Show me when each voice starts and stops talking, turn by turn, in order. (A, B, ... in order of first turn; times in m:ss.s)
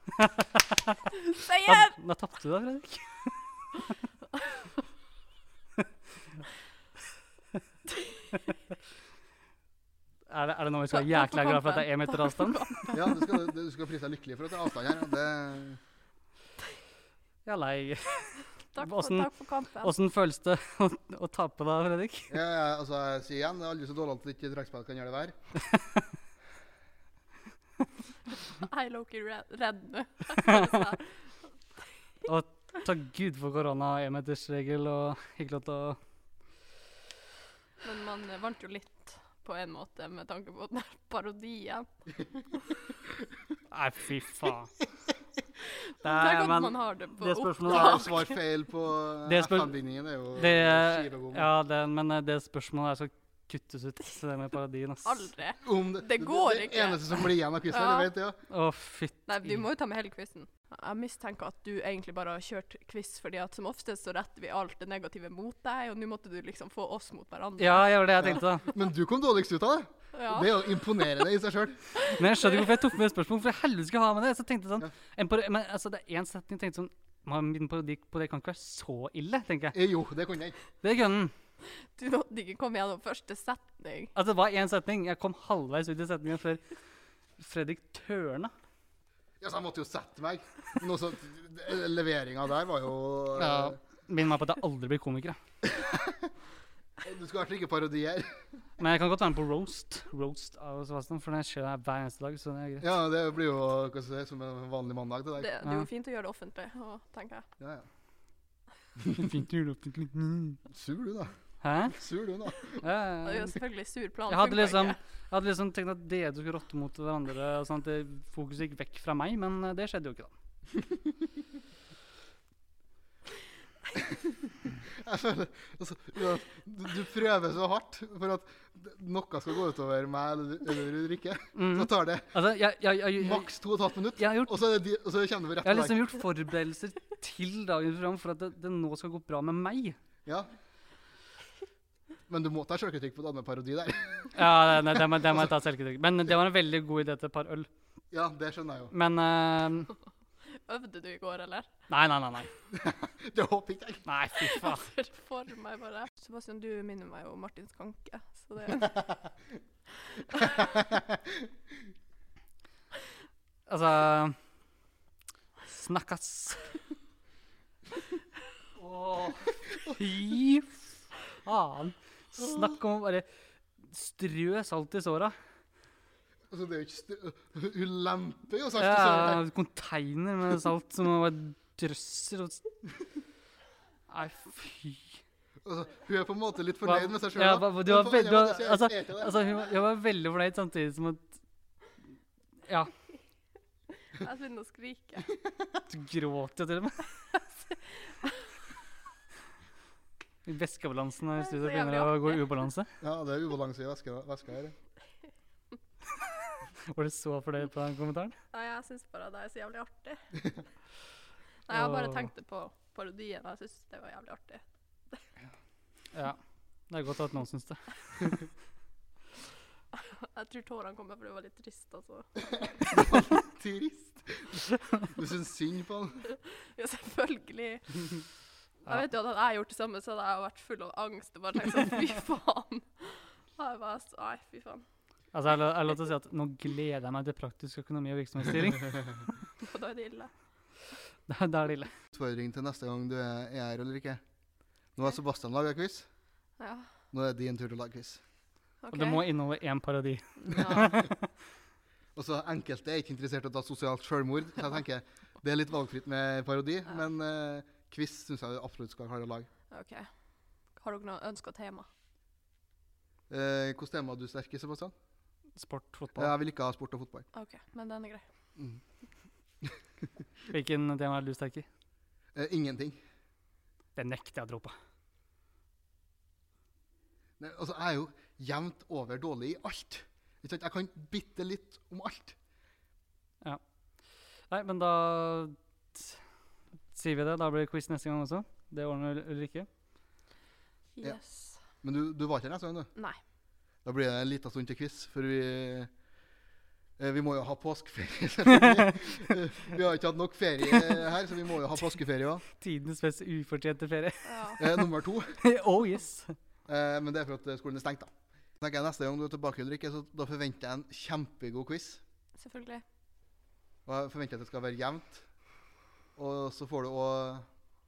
0:00.1-0:01.0 A
0:01.1-0:02.0 B
0:01.6-0:03.8 A
0:10.3-0:12.7 A
0:10.9-0:13.2 B
0:12.9-0:15.8 C
0:17.4-0:22.3 A
0:18.7-0:19.9 B
0:22.3-0:25.4 C
0:28.5-0:31.3 B
0:32.2-0:36.0 A
0:37.8-0:41.9 B
0:43.7-0:44.7 A
0:45.8-0:48.3 B
0:46.0-0:48.1 A
0:47.7-0:51.5 C
0:49.3-0:49.7 A
0:50.4-0:55.3 A
0:55.0-0:58.1 B
0:55.6-0:58.4 C
0:58.5-0:59.6 A
0:59.3-1:08.4 B
1:07.6-1:08.6 A
1:08.2-1:11.9 C
1:10.1-1:10.7 B
1:12.1-1:19.8 A
1:19.7-1:20.6 C
1:20.8-1:21.3 A
1:21.8-1:24.1 B
1:24.2-1:26.6 A
1:27.4-1:28.5 A
1:29.4-1:33.8 C
1:33.4-1:35.4 A
1:35.6-1:36.3 C
1:37.0-1:38.5 C
1:38.8-1:42.9 A
1:42.8-1:45.6 C
1:45.4-1:47.5 B
1:47.6-1:47.9 C
1:49.0-1:49.2 C
1:49.1-1:50.6 A
1:50.7-1:51.3 C
1:51.6-1:52.0 A
1:51.9-1:52.8 C
1:52.8-1:53.6 A
1:53.2-1:55.0 B
1:54.3-2:00.3 A
2:04.0-2:04.3 C
2:04.8-2:12.3 C
2:11.6-2:13.5 A
2:13.2-2:16.1 C
2:14.2-2:14.6 A
2:15.6-2:20.0 A
2:20.2-2:20.5 C
2:22.3-2:24.5 C
2:24.4-2:27.7 A
2:28.1-2:28.9 C
2:28.9-2:29.9 A
2:30.7-2:31.7 B
2:31.9-2:32.5 A
2:32.7-2:34.1 C
2:34.1-2:34.9 A
2:34.4-2:39.0 B
2:40.2-2:40.6 B
2:40.4-2:41.4 C
2:43.7-2:44.4 A
2:45.7-2:46.7 A
2:48.8-2:53.3 A
2:53.8-2:55.4 A
2:56.5-2:59.4 C
2:58.8-3:02.6 A
3:04.1-3:05.2 A
3:05.6-3:09.5 C
3:06.8-3:11.3 A
3:12.6-3:12.9 A
3:14.1-3:15.3 B
3:15.9-3:17.4 A
3:17.9-3:18.4 B
3:20.4-3:22.9 A
3:21.4-3:22.4 B
3:23.0-3:24.8 C
3:26.9-3:28.4 A
3:28.5-3:30.2 B
3:31.7-3:34.6 B
3:31.7-3:32.3 A
3:36.1-3:38.4 A
3:40.0-3:42.3 B
3:42.8-3:46.2 C
3:46.3-3:48.2 B
3:48.9-3:54.8 B
3:55.3-3:59.2 A
3:59.6-4:00.3 B
4:01.3-4:01.9 A
4:02.1-4:04.2 C
4:05.0-4:06.1 C
4:06.6-4:06.9 B
4:07.1-4:08.2 C
4:08.8-4:09.2 B
4:08.9-4:11.2 A
4:10.4-4:10.9 B
4:10.6-4:11.1 C
4:12.2-4:19.5 C
4:19.7-4:20.1 B
4:20.8-4:21.9 B
4:23.3-4:24.9 C
4:25.6-4:26.3 A
4:26.2-4:27.3 C
4:27.3-4:28.2 B
4:30.5-4:31.7 A
4:32.4-4:33.0 C
4:34.0-4:34.7 A
4:37.4-4:42.4 C
4:44.5-4:46.2 A
4:46.9-4:49.7 A
4:51.0-4:51.6 B
4:51.8-4:52.9 C
4:53.8-4:55.9 C
4:57.0-5:02.4 C
4:58.6-4:58.9 A
5:02.6-5:04.8 A
5:04.2-5:04.6 B
5:04.6-5:05.4 C
5:05.4-5:06.4 A
5:06.7-5:12.0 C
5:12.4-5:12.8 B
5:13.9-5:15.2 C
5:16.2-5:17.5 C